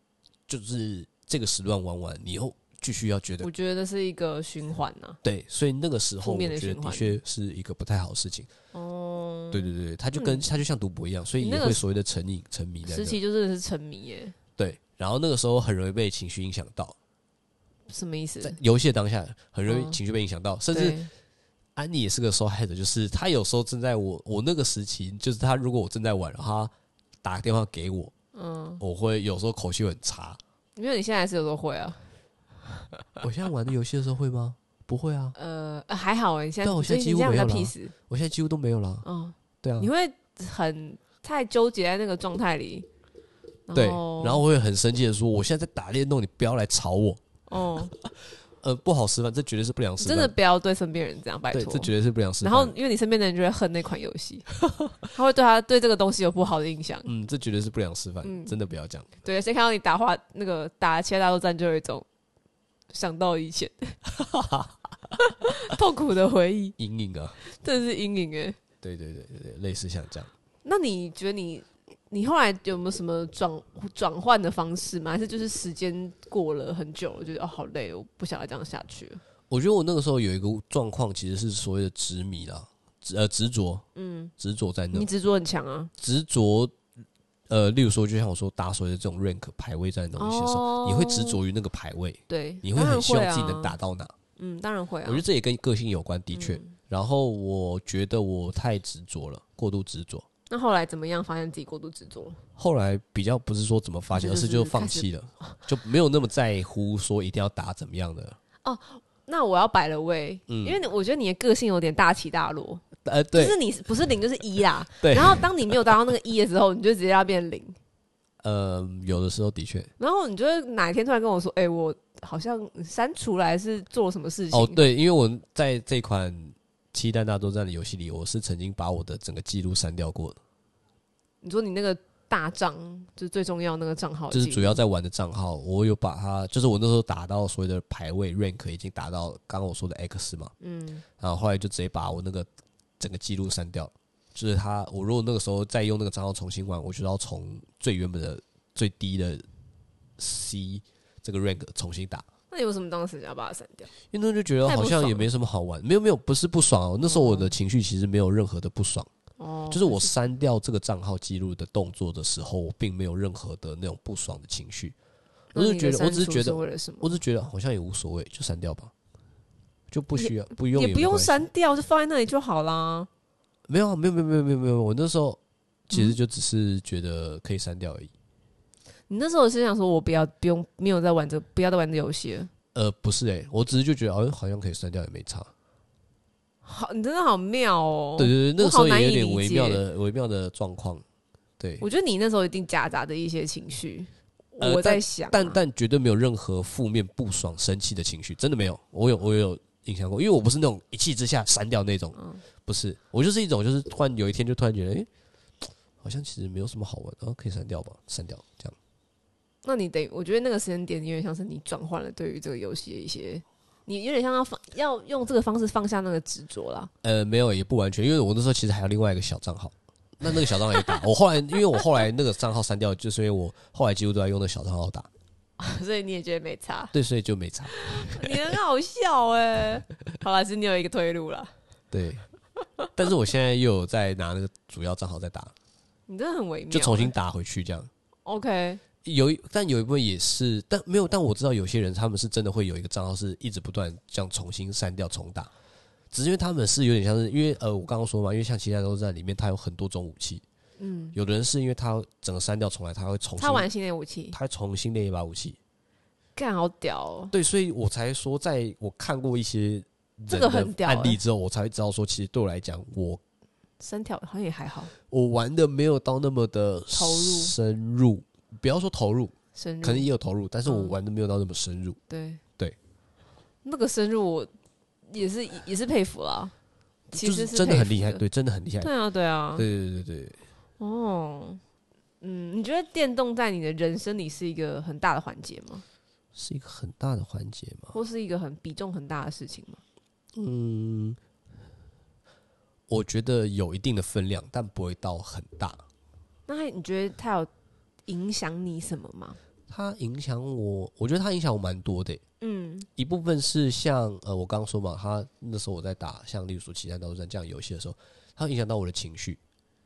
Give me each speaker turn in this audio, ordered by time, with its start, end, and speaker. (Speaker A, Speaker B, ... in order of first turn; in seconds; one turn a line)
Speaker A: 0.5-3.5
Speaker B: 3.4-5.2
Speaker A: 5.2-8.5
Speaker B: 6.2-7.2
Speaker B: 8.7-10.5
Speaker A: 9.5-13.2
Speaker B: 11.4-11.8
Speaker B: 12.8-14.3
Speaker A: 14.6-16.9
Speaker B: 17.9-18.6
Speaker A: 18.4-21.1
Speaker B: 19.7-20.0
Speaker B: 20.7-21.1
Speaker A: 21.8-26.7
Speaker A: 27.2-28.1
Speaker B: 28.3-28.8
Speaker A: 28.8-30.4
Speaker B: 30.8-32.1
Speaker A: 33.2-35.3
Speaker B: 35.3-37.9
Speaker A: 36.6-39.0
Speaker B: 39.0-42.9
Speaker A: 39.6-39.9
Speaker B: 43.7-44.4
Speaker A: 43.7-47.2
Speaker B: 47.5-47.9
Speaker A: 47.7-50.3
Speaker B: 50.0-54.5
Speaker A: 51.5-52.7
Speaker B: 55.0-57.1
Speaker A: 57.0-59.1
Speaker B: 58.2-58.5
Speaker B: 59.2-62.0
Speaker B: 62.9-64.0
Speaker A: 64.1-64.8
Speaker B: 65.2-66.8
Speaker A: 66.8-67.4
Speaker B: 67.4-68.6
Speaker A: 68.8-70.3
Speaker B: 70.6-79.2
Speaker A: 79.5-83.8
Speaker B: 83.9-84.3
Speaker A: 84.4-85.1
Speaker B: 84.9-85.9
Speaker A: 86.0-86.7
Speaker A: 87.5-94.1
Speaker B: 90.2-91.4
Speaker B: 92.3-93.7
Speaker B: 94.3-95.2
Speaker A: 95.0-100.2
Speaker B: 96.3-96.8
Speaker B: 100.5-102.4
Speaker A: 102.5-108.4
Speaker B: 104.1-105.6
Speaker B: 108.6-112.8
Speaker A: 110.5-110.8
Speaker A: 113.0-113.6
Speaker B: 113.3-117.8
Speaker A: 115.0-115.7
Speaker A: 118.4-119.9
Speaker B: 120.0-124.8
Speaker A: 124.5-130.4
Speaker B: 131.4-134.8
Speaker A: 134.3-140.5
Speaker B: 140.6-141.0
Speaker A: 141.2-142.5
Speaker A: 143.0-149.4
Speaker A: 150.2-152.2
Speaker B: 152.5-153.9
Speaker A: 154.1-159.1
Speaker B: 154.6-155.3
Speaker B: 157.0-157.5
Speaker B: 159.4-160.1
Speaker A: 159.7-164.9
Speaker B: 165.5-167.2
Speaker A: 165.5-168.9
Speaker A: 169.9-171.4
Speaker B: 170.2-173.1
Speaker A: 173.7-178.1
Speaker B: 179.1-182.5
Speaker A: 182.7-185.5
Speaker B: 186.6-189.8
Speaker A: 188.2-191.0
Speaker A: 191.6-191.8
Speaker B: 191.8-195.6
Speaker A: 194.6-205.1
Speaker B: 202.1-202.4
Speaker A: 205.6-208.8
Speaker B: 209.6-216.9
Speaker A: 217.0-225.1
Speaker B: 220.5-221.0
Speaker B: 225.6-226.9
Speaker A: 226.9-228.4
Speaker B: 227.7-231.5
Speaker A: 231.9-232.2
Speaker A: 232.9-235.5
Speaker B: 236.1-237.1
Speaker A: 236.7-237.9
Speaker B: 238.2-238.8
Speaker A: 239.0-245.5
Speaker A: 246.1-250.4
Speaker B: 250.8-251.2
Speaker A: 251.1-253.7
Speaker B: 253.4-254.4
Speaker A: 254.3-255.6
Speaker B: 256.4-257.3
Speaker A: 257.3-263.2
Speaker B: 260.3-261.2
Speaker B: 263.8-264.9
Speaker A: 265.0-272.0
Speaker B: 266.9-267.5
Speaker B: 269.5-270.1
Speaker B: 270.6-270.9
Speaker B: 272.1-272.4
Speaker B: 273.6-274.5
Speaker B: 275.1-276.5
Speaker B: 277.1-278.2
Speaker A: 277.1-278.9
Speaker B: 278.8-279.6
Speaker A: 279.6-280.4
Speaker B: 280.8-281.6
Speaker B: 282.2-285.8
Speaker A: 286.3-287.9
Speaker B: 287.9-289.8
Speaker A: 290.3-291.2
Speaker A: 292.9-295.8
Speaker B: 296.5-297.5
Speaker B: 298.1-299.4
Speaker A: 299.7-302.2
Speaker B: 302.4-302.9
Speaker A: 303.0-309.4